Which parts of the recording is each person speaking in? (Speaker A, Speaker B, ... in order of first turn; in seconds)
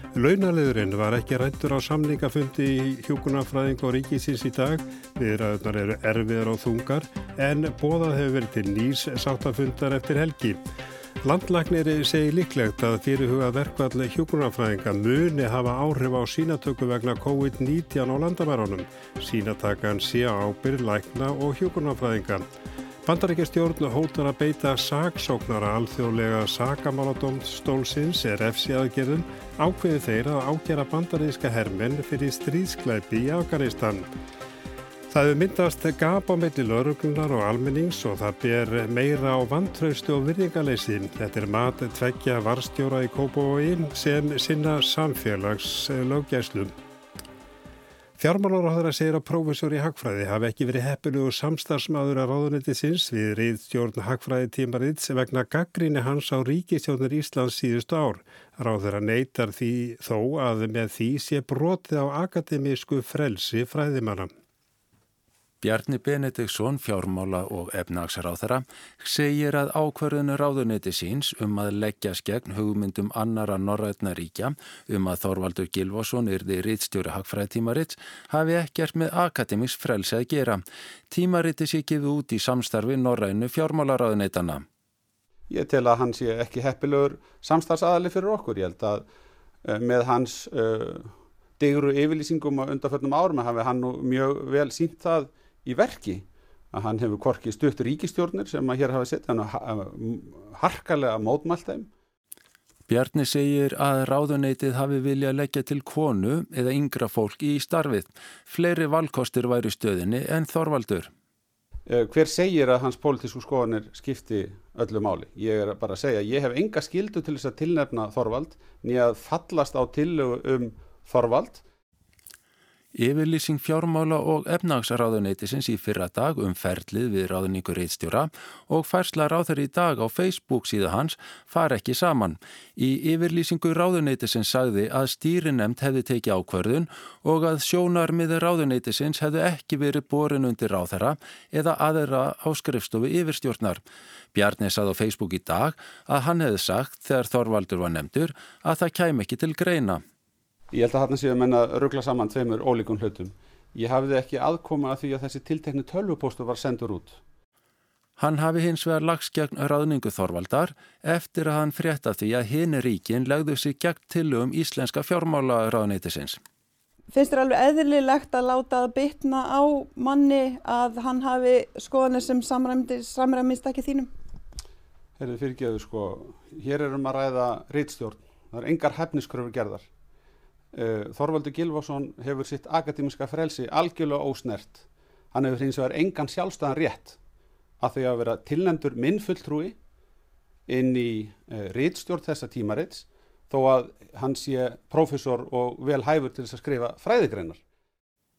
Speaker A: 0.1-10.6, 11.2-22.4, 23.1-34.1, 35.1-46.7, 48.2-64.3
Speaker B: 65.6-84.7, 102.9-111.1, 123.0-143.8, 144.3-150.0, 158.2-166.4
Speaker C: 85.5-89.0, 89.6-101.9, 111.9-121.6, 150.7-157.2, 175.2-179.9, 180.7-187.2, 187.8-189.8, 190.7-197.6
Speaker D: 167.1-174.1